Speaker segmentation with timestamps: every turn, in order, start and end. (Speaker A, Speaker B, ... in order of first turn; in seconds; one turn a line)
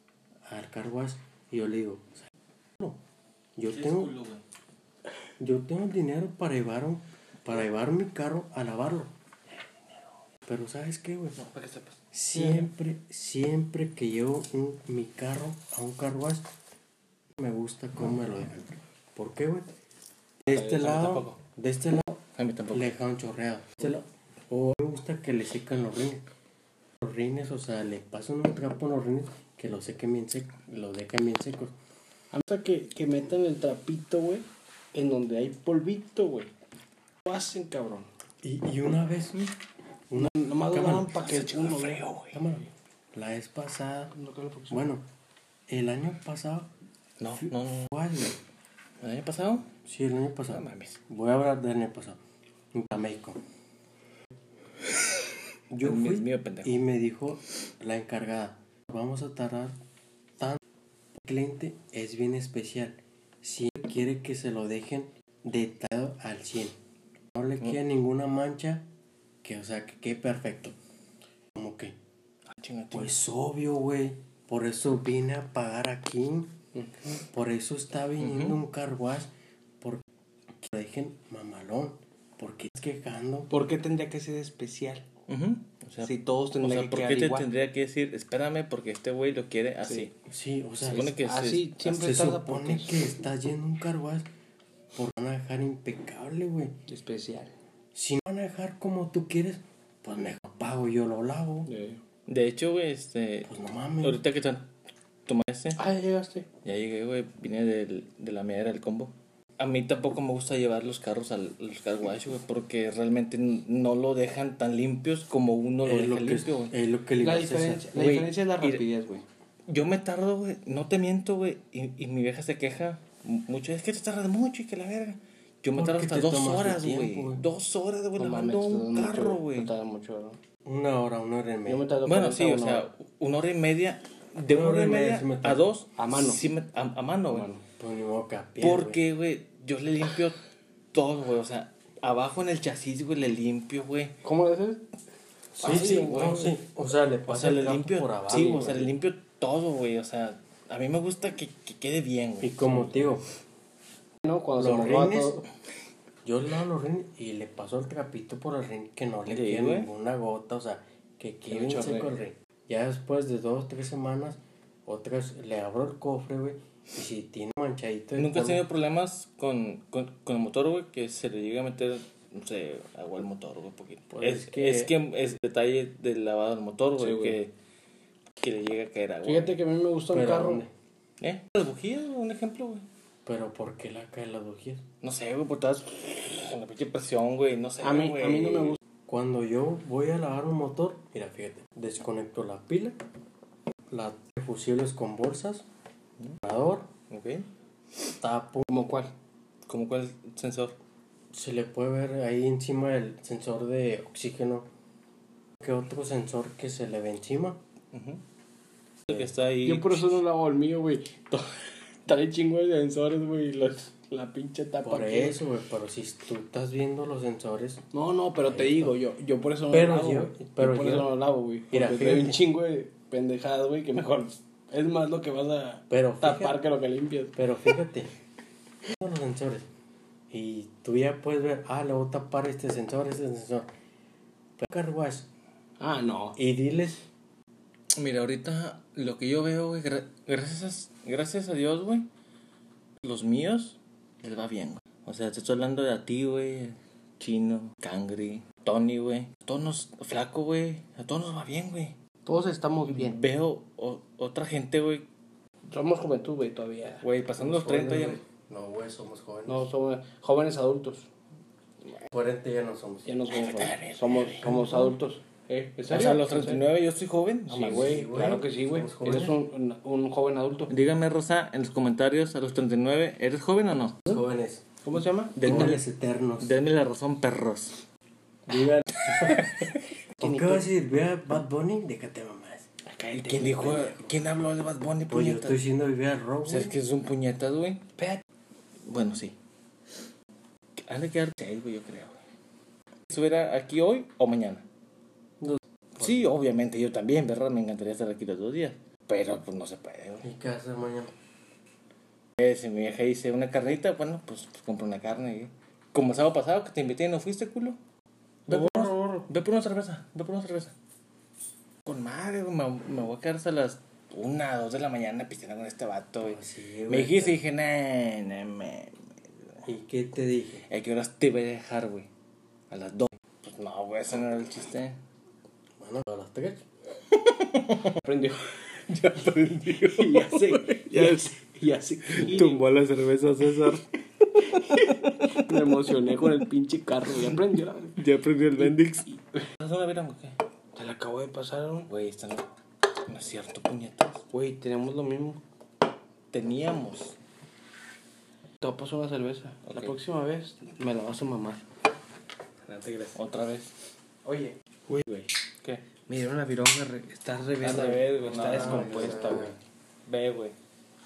Speaker A: 0.5-2.3
Speaker A: 3.6-4.1
Speaker B: 3.7-4.4
Speaker A: 5.4-9.1
Speaker A: 10.5-11.4
Speaker B: 11.3-12.7
Speaker A: 12.1-16.4
Speaker A: 17.4-19.7
Speaker A: 20.4-22.2
Speaker B: 20.5-21.4
Speaker B: 22.4-22.8
Speaker A: 22.7-26.2
Speaker A: 27.0-31.7
Speaker C: 32.3-36.5
Speaker C: 37.3-38.1
Speaker A: 38.4-39.5
Speaker A: 40.1-41.1
Speaker C: 40.1-42.1
Speaker B: 41.1-42.4
Speaker A: 42.3-44.1
Speaker C: 44.1-44.9
Speaker A: 44.7-45.0
Speaker A: 45.7-46.7
Speaker B: 47.2-47.9
Speaker A: 47.5-48.4
Speaker B: 49.0-49.7
Speaker A: 49.8-52.2
Speaker B: 50.5-51.0
Speaker A: 52.7-53.4
Speaker A: 55.7-59.7
Speaker B: 55.8-56.8
Speaker A: 61.2-66.8
Speaker A: 67.3-68.8
Speaker A: 69.4-70.7
Speaker A: 71.5-71.9
Speaker B: 72.5-73.2
Speaker A: 72.9-76.6
Speaker C: 76.7-77.2
Speaker A: 77.2-80.0
Speaker B: 78.2-78.6
Speaker A: 80.6-83.5
Speaker C: 83.5-85.0
Speaker B: 85.3-90.1
Speaker C: 86.0-87.5
Speaker A: 90.3-91.2
Speaker B: 90.8-91.7
Speaker C: 90.8-93.1
Speaker A: 91.8-94.3
Speaker A: 94.9-96.7
Speaker C: 96.9-97.5
Speaker A: 97.9-101.7
Speaker C: 101.7-102.0
Speaker B: 102.3-103.5
Speaker A: 103.5-104.2
Speaker B: 104.0-104.7
Speaker B: 105.3-105.8
Speaker C: 105.8-106.5
Speaker B: 106.6-116.7
Speaker A: 115.8-117.8
Speaker C: 117.2-119.2
Speaker B: 117.9-118.8
Speaker B: 119.7-129.7
Speaker A: 125.8-127.4
Speaker C: 128.2-130.4
Speaker A: 130.6-131.8
Speaker C: 131.7-132.9
Speaker B: 132.0-137.5
Speaker A: 134.5-135.7
Speaker C: 135.9-136.4
Speaker C: 137.3-137.6
Speaker A: 137.8-139.0
Speaker B: 138.6-140.4
Speaker B: 140.9-144.1
Speaker C: 144.2-144.8
Speaker B: 145.6-146.5
Speaker C: 145.6-146.5
Speaker A: 145.6-148.9
Speaker B: 147.3-153.0
Speaker A: 152.4-153.3
Speaker C: 154.2-155.4
Speaker A: 154.6-155.5
Speaker A: 156.2-168.6
Speaker B: 159.3-159.9
Speaker C: 161.5-162.1
Speaker B: 168.2-177.5
Speaker A: 174.1-174.9
Speaker C: 177.0-177.4
Speaker B: 178.4-179.6
Speaker C: 179.2-180.6
Speaker A: 180.1-180.7
Speaker B: 181.2-182.8
Speaker A: 183.2-184.8
Speaker B: 185.0-188.8
Speaker C: 187.8-188.8
Speaker A: 189.1-192.9
Speaker A: 193.9-195.7
Speaker A: 196.4-196.9
Speaker B: 197.1-197.5
Speaker A: 198.2-198.7
Speaker C: 198.7-199.1
Speaker B: 199.7-200.8
Speaker A: 201.3-204.7
Speaker A: 205.6-207.6
Speaker B: 207.9-208.2
Speaker B: 209.1-210.2
Speaker C: 209.6-211.4
Speaker C: 212.1-215.4
Speaker A: 214.8-217.8
Speaker C: 217.9-227.4
Speaker A: 218.4-218.9
Speaker A: 219.7-221.1
Speaker A: 221.7-222.4
Speaker A: 225.9-226.6
Speaker A: 227.3-228.1
Speaker A: 228.9-229.6
Speaker A: 230.3-233.7
Speaker A: 234.6-235.3
Speaker C: 235.8-236.4
Speaker A: 236.3-237.1
Speaker B: 237.9-242.1
Speaker B: 243.0-251.9
Speaker C: 252.2-253.2
Speaker B: 252.9-255.1
Speaker C: 255.7-257.0
Speaker B: 257.0-258.2
Speaker A: 257.4-259.6
Speaker C: 259.4-261.1
Speaker A: 262.1-263.2
Speaker C: 263.0-266.7
Speaker B: 263.3-264.5
Speaker A: 264.4-264.9
Speaker B: 265.9-268.3
Speaker C: 267.5-270.7
Speaker A: 267.6-269.4
Speaker B: 270.7-274.0
Speaker A: 274.1-274.6
Speaker C: 274.8-275.4
Speaker B: 275.3-275.8
Speaker A: 275.4-276.5
Speaker B: 276.4-277.8
Speaker A: 278.5-282.7
Speaker B: 278.5-279.8
Speaker C: 280.2-280.7
Speaker C: 282.9-284.1
Speaker B: 283.1-285.6
Speaker A: 285.1-286.8
Speaker B: 286.4-287.8
Speaker B: 288.9-289.4
Speaker B: 290.8-292.2
Speaker B: 293.1-294.6
Speaker A: 295.4-296.3
Speaker B: 296.0-300.2
Speaker A: 300.2-301.1
Speaker B: 302.4-307.8
Speaker B: 308.5-310.7
Speaker B: 311.9-319.7
Speaker A: 316.2-317.4
Speaker A: 319.6-320.6
Speaker B: 320.6-322.1
Speaker B: 322.7-325.0
Speaker A: 325.8-326.6
Speaker B: 327.1-328.0
Speaker C: 328.0-328.4
Speaker B: 328.9-331.3
Speaker C: 329.9-332.6
Speaker B: 332.1-333.9
Speaker B: 334.4-336.3
Speaker C: 334.6-338.0
Speaker B: 338.0-340.4
Speaker C: 338.6-339.4
Speaker C: 340.7-341.9
Speaker B: 341.9-342.5
Speaker B: 343.1-344.2
Speaker C: 344.3-345.4
Speaker B: 346.3-347.1
Speaker C: 348.6-351.6
Speaker B: 349.6-350.0
Speaker C: 352.6-353.2
Speaker B: 353.1-353.7
Speaker C: 354.2-355.3
Speaker C: 356.1-359.5
Speaker B: 357.6-360.6
Speaker A: 358.4-359.6